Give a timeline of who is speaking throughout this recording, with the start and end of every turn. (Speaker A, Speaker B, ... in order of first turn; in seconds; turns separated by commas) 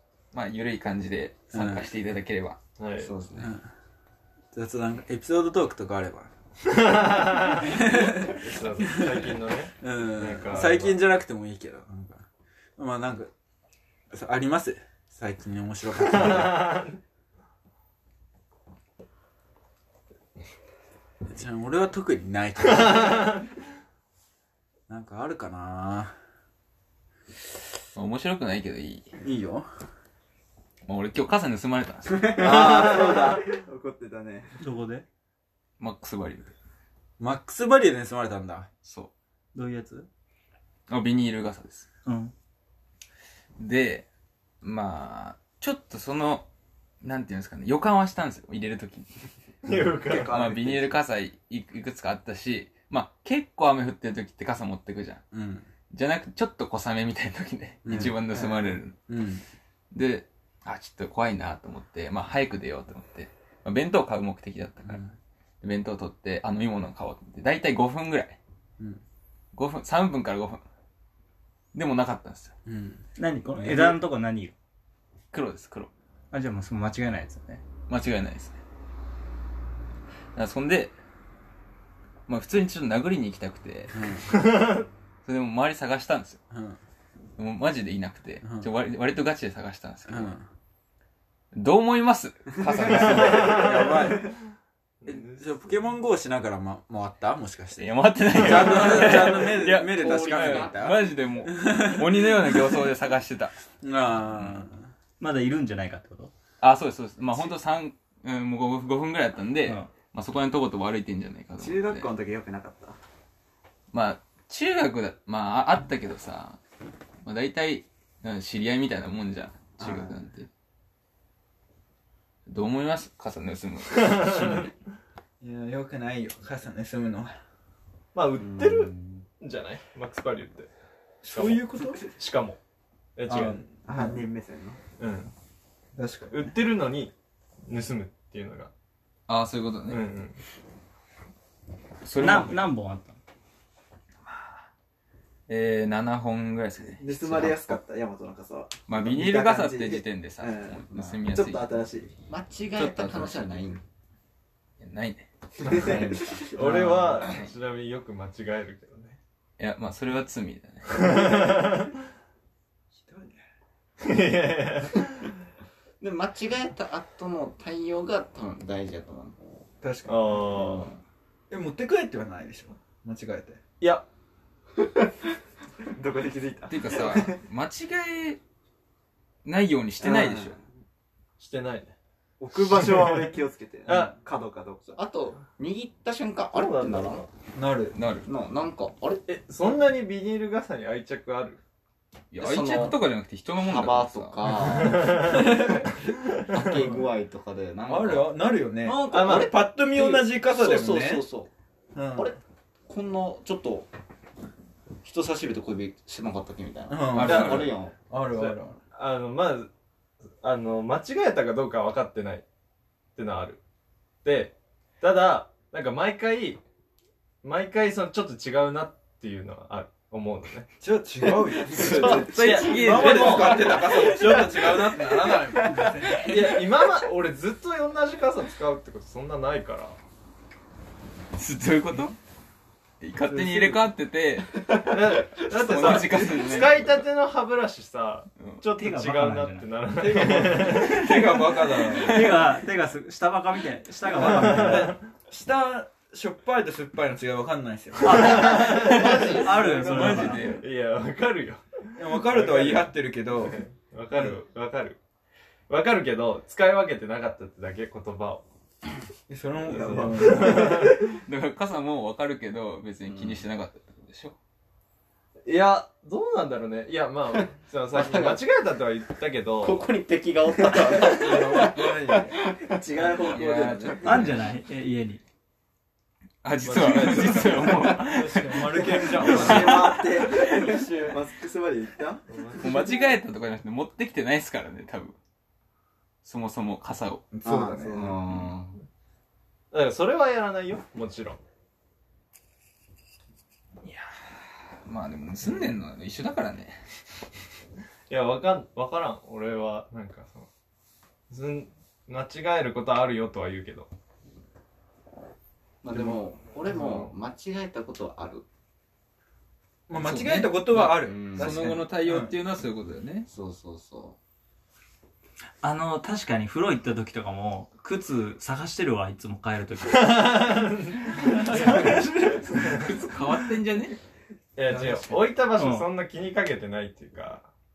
Speaker A: 0.3-2.6, Speaker B: 1.5-1.9, Speaker C: 2.8-3.1, Speaker D: 3.0-3.5, Speaker B: 3.4-3.7, Speaker B: 4.5-6.3, Speaker C: 6.7-11.0, Speaker B: 7.6-13.3, Speaker B: 14.1-16.7, Speaker C: 16.0-17.0, Speaker B: 21.3-23.3, Speaker C: 22.7-23.5, Speaker B: 24.9-26.2, Speaker A: 27.9-29.1, Speaker B: 29.2-29.7, Speaker A: 30.9-32.7, Speaker E: 32.2-34.6, Speaker C: 32.4-33.4, Speaker F: 34.6-35.1, Speaker A: 35.8-36.5, Speaker B: 37.2-38.7, Speaker A: 38.8-39.1, Speaker F: 39.5-40.1, Speaker A: 40.9-41.9, Speaker F: 42.1-42.3, Speaker A: 43.6-44.1, Speaker A: 44.6-46.5, Speaker A: 47.0-49.1, Speaker C: 49.6-50.4, Speaker E: 50.0-51.0, Speaker A: 50.2-55.2, Speaker B: 55.3-55.7, Speaker A: 55.9-59.0, Speaker B: 57.9-59.4, Speaker A: 59.9-65.0, Speaker B: 64.9-65.1, Speaker A: 65.6-68.4, Speaker A: 69.5-70.6, Speaker A: 71.7-72.5, Speaker B: 72.7-73.0, Speaker F: 73.2-74.5, Speaker B: 73.6-73.9, Speaker A: 75.3-75.9, Speaker F: 76.3-77.6, Speaker A: 77.9-78.6, Speaker A: 80.3-81.0, Speaker A: 82.3-84.1, Speaker B: 83.9-84.3, Speaker C: 84.3-84.9, Speaker A: 85.2-86.4, Speaker B: 86.5-86.8, Speaker A: 87.4-90.4, Speaker B: 88.4-88.7, Speaker B: 90.1-90.4, Speaker A: 91.5-93.9, Speaker B: 92.8-94.3, Speaker C: 93.5-94.1, Speaker C: 95.0-95.6, Speaker B: 95.0-102.8, Speaker A: 97.8-103.6, Speaker D: 98.7-100.9, Speaker B: 103.8-104.9, Speaker A: 104.3-104.7, Speaker F: 105.2-106.3, Speaker A: 106.6-112.1, Speaker F: 109.7-109.9, Speaker E: 111.6-113.0, Speaker A: 113.9-116.6, Speaker A: 117.2-120.5, Speaker E: 119.8-120.2, Speaker A: 122.5-124.7, Speaker C: 124.0-124.6, Speaker B: 125.4-127.4, Speaker C: 128.1-130.7, Speaker D: 128.3-129.2, Speaker B: 131.2-132.1, Speaker C: 131.3-131.6, Speaker C: 132.2-132.6, Speaker C: 133.2-133.6, Speaker B: 133.3-134.2, Speaker E: 133.8-134.8, Speaker C: 135.0-135.3, Speaker B: 136.0-136.3, Speaker C: 136.3-137.1, Speaker C: 137.7-138.7, Speaker A: 139.3-140.0, Speaker C: 139.9-140.4, Speaker A: 142.0-142.7, Speaker F: 142.2-143.2, Speaker A: 144.2-144.6, Speaker A: 145.5-147.8, Speaker E: 146.9-152.1, Speaker A: 148.9-151.8, Speaker D: 152.3-153.8, Speaker A: 152.8-153.6, Speaker A: 154.8-155.8, Speaker E: 155.6-156.9, Speaker D: 155.7-157.4, Speaker C: 156.6-159.2, Speaker A: 159.6-161.4, Speaker C: 160.9-161.9, Speaker B: 163.0-163.4, Speaker C: 164.0-165.2, Speaker D: 166.0-169.6, Speaker B: 169.8-170.3, Speaker C: 170.1-170.9, Speaker D: 170.5-171.0, Speaker B: 171.5-173.6, Speaker C: 173.8-174.1, Speaker E: 174.8-175.1, Speaker E: 175.9-177.4, Speaker A: 176.7-178.4, Speaker A: 179.4-180.6, Speaker E: 180.0-180.6, Speaker C: 181.4-182.0, Speaker E: 182.4-185.0, Speaker C: 182.6-184.2, Speaker D: 184.9-187.3, Speaker C: 186.6-187.3, Speaker B: 187.6-188.0, Speaker A: 187.9-188.3, Speaker D: 188.3-189.2, Speaker C: 189.3-191.6, Speaker A: 192.3-194.5, Speaker D: 192.4-195.9, Speaker C: 194.7-197.1, Speaker D: 196.5-201.5, Speaker B: 197.9-201.3, Speaker C: 199.1-199.6, Speaker B: 201.9-202.3, Speaker D: 202.2-203.9, Speaker D: 205.0-207.9, Speaker B: 206.9-208.8, Speaker A: 207.1-207.8, Speaker C: 208.3-209.7, Speaker C: 210.4-212.4, Speaker C: 213.2-213.6, Speaker C: 214.2-216.6, Speaker C: 217.4-220.7, Speaker B: 220.8-226.6, Speaker C: 221.2-225.1, Speaker E: 221.8-222.7, Speaker A: 221.9-223.8, Speaker E: 224.3-224.6, Speaker C: 226.2-230.0, Speaker A: 231.3-232.2, Speaker A: 233.0-234.9, Speaker C: 234.7-241.2, Speaker A: 235.5-237.1, Speaker B: 235.7-236.2, Speaker F: 238.7-239.7, Speaker B: 239.9-242.4, Speaker A: 241.9-242.4, Speaker F: 242.0-244.9, Speaker B: 244.1-248.9, Speaker C: 244.2-244.9, Speaker C: 248.0-255.0, Speaker F: 248.0-250.4, Speaker D: 248.5-249.5, Speaker A: 249.2-250.7, Speaker B: 249.7-250.2, Speaker B: 252.0-253.6, Speaker C: 255.7-258.4, Speaker B: 259.3-260.8, Speaker C: 259.7-261.0, Speaker E: 259.8-260.8, Speaker A: 260.6-264.4, Speaker D: 263.0-263.4, Speaker C: 265.5-269.9, Speaker D: 267.9-268.4, Speaker D: 269.6-271.9, Speaker C: 270.9-271.7, Speaker E: 271.0-274.4, Speaker B: 271.6-272.4, Speaker A: 273.1-274.4, Speaker F: 274.0-275.2, Speaker A: 276.4-280.5, Speaker C: 276.6-279.7, Speaker B: 276.8-281.2, Speaker E: 279.2-283.0, Speaker C: 282.3-282.8, Speaker A: 282.6-285.2, Speaker A: 286.2-287.3, Speaker B: 287.3-288.1, Speaker E: 287.4-288.2, Speaker D: 287.9-288.8, Speaker C: 289.7-291.4, Speaker A: 293.8-296.9, Speaker C: 298.1-300.5, Speaker C: 301.3-303.9, Speaker D: 305.8-308.5, Speaker C: 305.9-307.1, Speaker B: 309.9-312.3, Speaker A: 309.9-313.3, Speaker D: 310.9-311.9, Speaker D: 313.3-314.2, Speaker F: 315.6-322.6, Speaker C: 319.9-323.0, Speaker A: 322.6-324.0, Speaker C: 324.6-327.5, Speaker B: 324.7-325.2, Speaker F: 325.6-325.9